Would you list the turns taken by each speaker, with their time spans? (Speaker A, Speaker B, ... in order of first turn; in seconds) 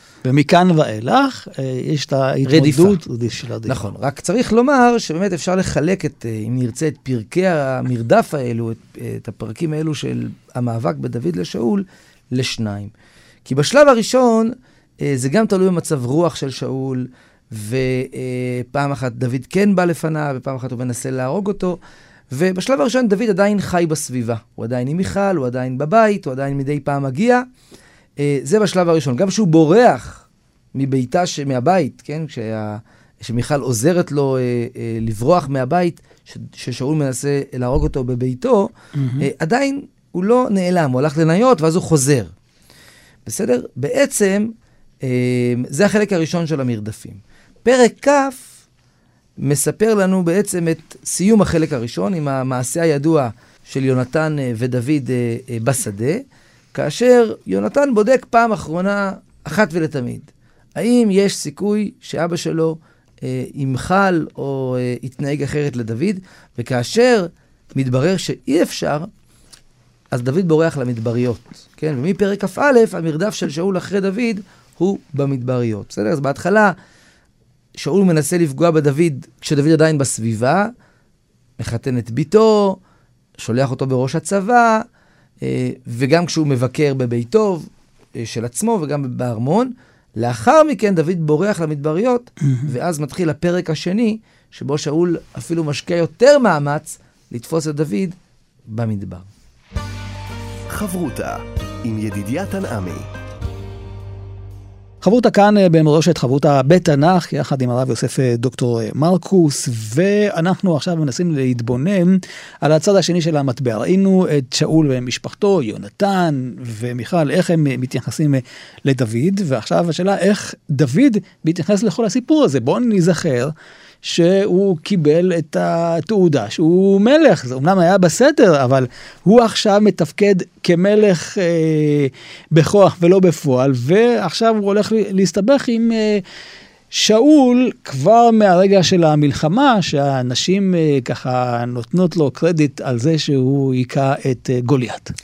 Speaker A: 0.2-3.8, 38.9-39.3, 92.4-92.7, 105.0-136.2, 136.9-145.1
Speaker B: 2.4-3.0, 3.6-12.9, 13.4-21.8, 22.3-27.4, 28.2-42.3, 43.2-48.5, 49.4-69.1, 70.1-76.7, 77.8-80.7, 81.6-82.8, 83.4-84.8, 85.4-98.2, 98.7-99.3
Speaker C: 100.7-103.1